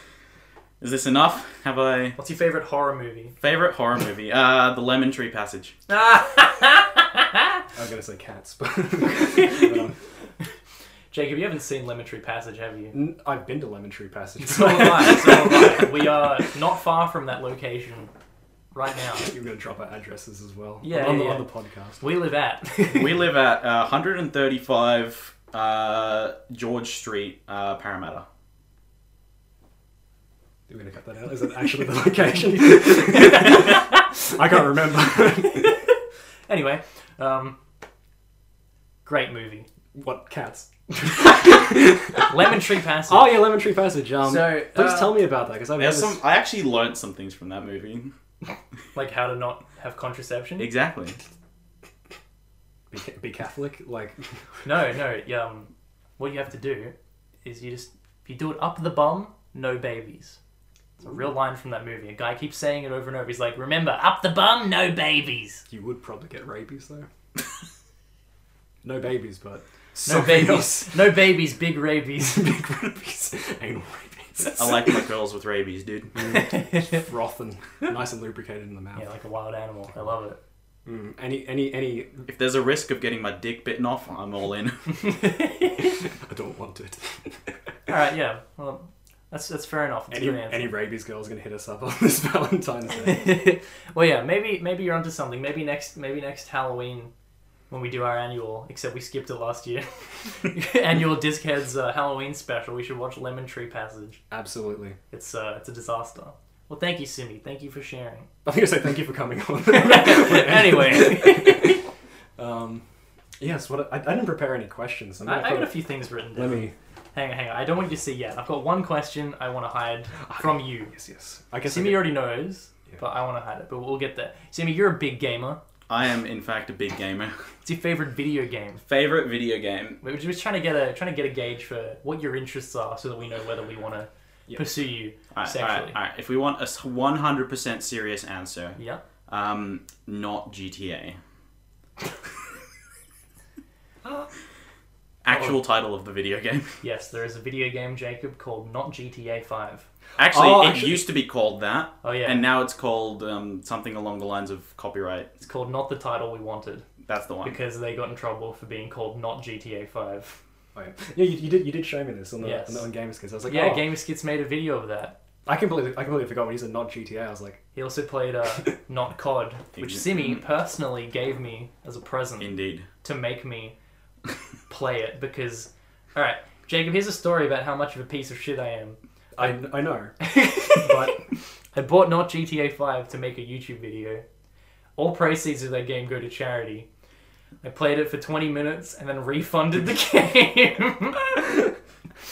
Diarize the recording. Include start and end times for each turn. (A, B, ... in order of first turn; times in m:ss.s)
0:00.8-0:02.2 A
0:02.2-0:03.3 B
0:03.4-0:05.7 A
0:05.9-0:07.6 B
0:07.8-0:10.0 C
0:09.4-0:09.7 B
0:11.1-0:12.9 B
0:12.9-0:16.1 C
0:14.4-0:18.1 B
0:18.7-0:19.3 B
0:19.2-0:22.0 C
0:20.8-0:23.2 B
0:22.9-0:28.2 A
0:30.7-0:35.7 C
0:33.1-0:33.8 B
0:35.5-0:37.6 B
0:39.0-0:39.7 B
0:39.9-0:46.2 C
0:41.0-0:43.5 B
0:44.2-0:45.2 B
0:45.8-0:48.1 A
0:48.9-0:50.7 B
0:50.6-0:51.2 A
0:52.9-0:54.2 C
0:54.6-1:00.4 B
1:01.0-1:05.6 B
1:05.7-1:07.1 C
1:08.8-1:11.2 C
1:10.0-1:12.5 B
1:12.2-1:14.8 C
1:14.5-1:16.2 A
1:16.2-1:19.0 C
1:16.2-1:17.0 B
1:18.9-1:20.4 B
1:20.8-1:22.3 C
1:22.3-1:25.0 A
1:25.0-1:26.0 B
1:26.0-1:27.5 C
1:27.9-1:30.7 B
1:30.1-1:33.4 C
1:33.0-1:37.1 B
1:37.7-1:44.2 B
1:44.3-1:45.0 C
1:45.1-1:48.3 B
1:48.4-1:51.8 C
1:49.7-1:51.8 B
1:52.4-1:52.8 C
1:53.4-1:56.7 C
1:55.2-2:00.9 B
2:00.2-2:02.2 C
2:01.6-2:05.6 B
2:05.9-2:07.4 A
2:07.6-2:08.8 B
2:08.8-2:10.0 A
2:10.0-2:16.0 B
2:14.5-2:14.7 C
2:15.3-2:21.2 A
2:18.8-2:19.0 B
2:25.2-2:26.8 A
2:26.8-2:29.8 B
2:30.2-2:35.3 A
2:30.2-2:31.0 C
2:32.0-2:32.4 B
2:35.4-2:36.8 B
2:37.0-2:37.6 A
2:37.4-2:40.4 B
2:40.7-2:43.9 C
2:42.4-2:42.9 B
2:43.4-2:45.2 B
2:45.4-2:47.6 C
2:47.7-2:53.8 B
2:49.8-2:50.4 A
2:52.4-2:52.9 A
2:54.7-2:59.5 B
2:59.4-3:01.2 C
3:00.2-3:01.2 B
3:01.7-3:04.2 B
3:05.0-3:06.9 B
3:07.6-3:11.6 B